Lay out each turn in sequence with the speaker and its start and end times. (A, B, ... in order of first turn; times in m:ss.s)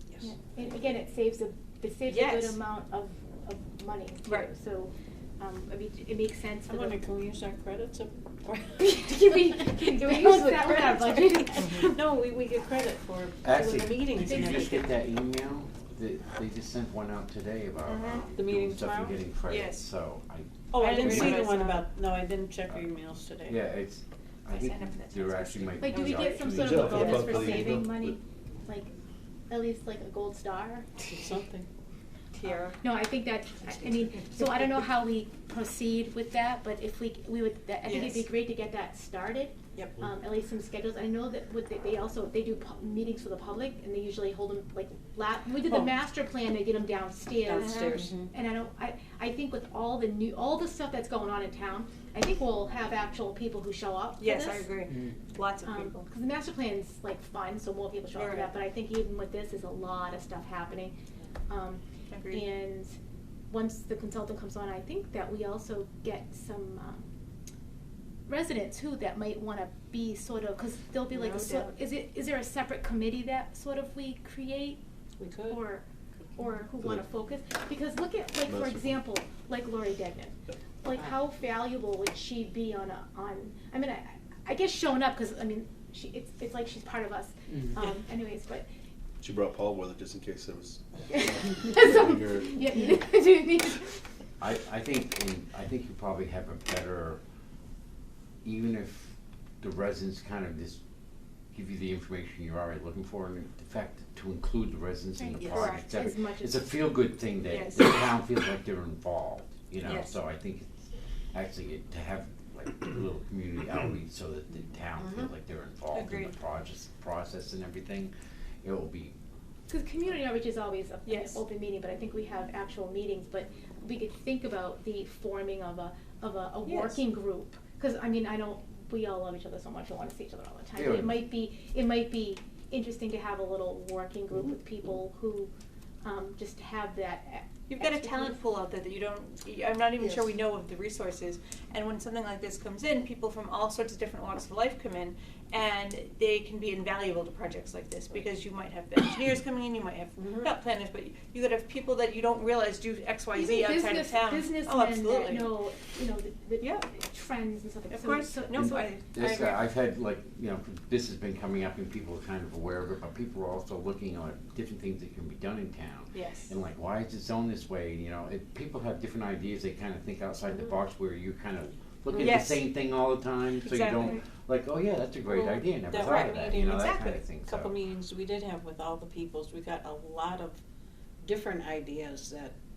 0:00.2-0:07.0 A
0:02.1-0:02.6 B
0:06.7-0:14.9 C
0:08.8-0:12.0 A
0:13.4-0:21.4 D
0:14.2-0:14.9 A
0:17.9-0:18.2 B
0:18.3-0:19.2 C
0:19.5-0:19.8 B
0:20.7-0:23.6 C
0:20.8-0:21.8 B
0:23.4-0:27.6 D
0:24.5-0:27.2 B
0:25.8-0:28.9 A
0:26.4-0:28.2 E
0:29.5-0:30.9 A
0:31.1-0:31.7 C
0:32.3-0:32.8 B
0:32.8-0:54.7 A
0:37.8-0:38.3 B
0:45.6-0:45.9 C
0:47.4-0:48.3 C
0:47.6-0:48.1 B
0:54.2-0:56.1 B
0:55.6-1:00.9 A
0:58.1-0:58.5 B
1:01.5-1:02.9 A
1:02.1-1:02.5 B
1:03.5-1:07.1 A
1:08.3-1:14.8 A
1:11.1-1:11.7 B
1:15.2-1:15.6 C
1:15.5-1:15.8 A
1:16.4-1:28.6 A
1:16.8-1:17.0 E
1:18.4-1:19.0 E
1:29.2-1:32.6 E
1:31.1-1:34.0 A
1:34.4-1:37.2 D
1:38.4-1:40.8 D
1:41.5-1:50.7 D
1:45.2-1:46.6 A
1:45.4-1:45.7 C
1:45.4-1:45.9 B
1:47.5-1:47.9 B
1:49.8-1:50.2 B
1:51.3-1:58.1 D
1:55.0-1:55.3 C
1:55.9-1:56.3 B
1:58.6-1:59.1 D
1:59.7-2:15.5 A
2:01.0-2:01.4 B
2:06.6-2:07.0 B
2:10.7-2:11.2 D
2:16.0-2:18.4 A
2:17.7-2:35.6 B
2:30.2-2:30.5 C
2:33.3-2:38.9 A
2:36.6-2:36.8 B
2:37.9-2:39.6 B
2:38.5-2:57.8 D
2:46.1-2:46.5 B
2:52.1-2:52.4 C
2:52.2-2:52.7 B
2:53.6-2:54.2 B
2:55.3-3:00.6 C
2:56.0-2:57.2 B
3:01.2-3:02.5 C